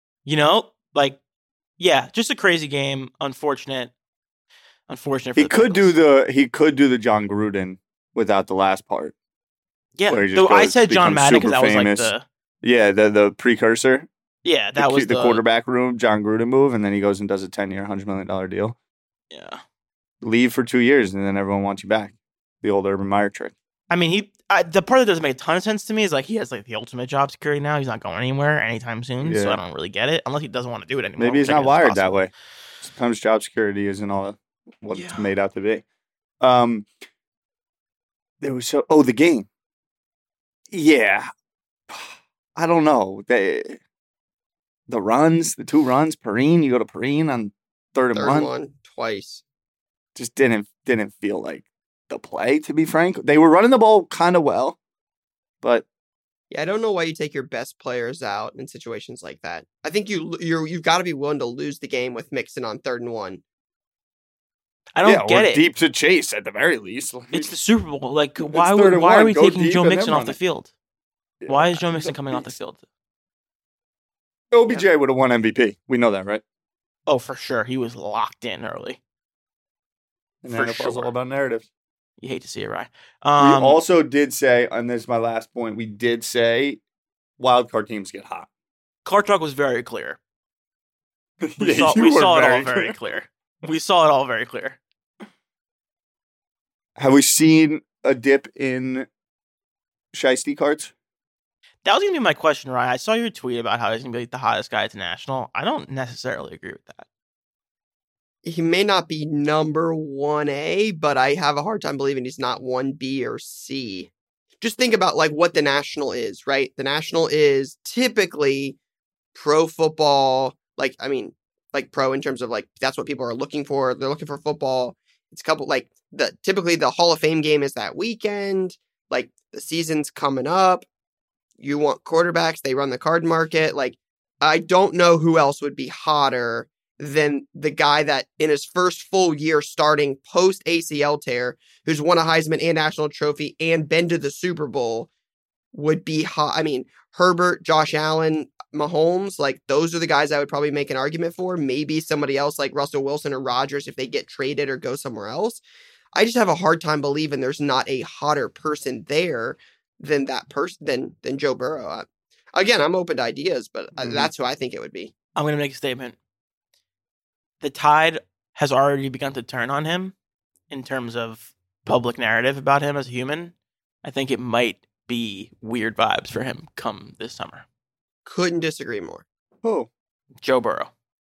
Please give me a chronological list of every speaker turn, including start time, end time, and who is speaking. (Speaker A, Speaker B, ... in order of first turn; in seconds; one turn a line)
Speaker A: 0.3-1.2
Speaker A: 1.8-3.9
Speaker A: 4.9-5.9
Speaker B: 5.4-9.2
Speaker A: 10.0-12.2
Speaker B: 10.1-12.1
Speaker B: 12.6-14.1
Speaker A: 14.4-15.4
Speaker B: 14.8-18.8
Speaker A: 19.3-19.6
Speaker B: 20.2-23.5
Speaker A: 23.9-32.2
Speaker B: 29.2-29.6
Speaker B: 31.2-35.9
Speaker A: 34.9-35.2
Speaker B: 36.4-36.9
Speaker B: 38.4-39.5
Speaker B: 40.7-41.3
Speaker B: 41.9-43.8
Speaker B: 44.9-48.5
Speaker C: 48.1-49.4
Speaker B: 50.1-54.8
Speaker C: 56.5-63.4
Speaker A: 65.0-65.6
Speaker B: 65.0-67.5
Speaker A: 67.3-70.7
Speaker B: 68.5-70.4
Speaker B: 71.4-72.5
Speaker A: 71.5-72.8
Speaker B: 74.5-76.4
Speaker A: 77.1-79.0
Speaker B: 80.4-81.7
Speaker A: 80.5-81.1
Speaker A: 82.2-83.8
Speaker B: 83.4-86.8
Speaker B: 87.4-88.5
Speaker A: 89.0-90.2
Speaker B: 91.4-93.0
Speaker A: 91.6-94.8
Speaker B: 97.0-99.1
Speaker B: 100.1-100.9
Speaker A: 101.8-107.0
Speaker C: 108.5-118.8
Speaker C: 119.3-130.9
Speaker C: 131.6-145.1
Speaker C: 145.7-155.6
Speaker C: 156.2-165.1
Speaker B: 164.0-164.3
Speaker A: 165.4-166.2
Speaker A: 167.6-170.1
Speaker A: 170.7-177.7
Speaker C: 178.3-179.2
Speaker B: 179.6-179.9
Speaker A: 180.4-180.9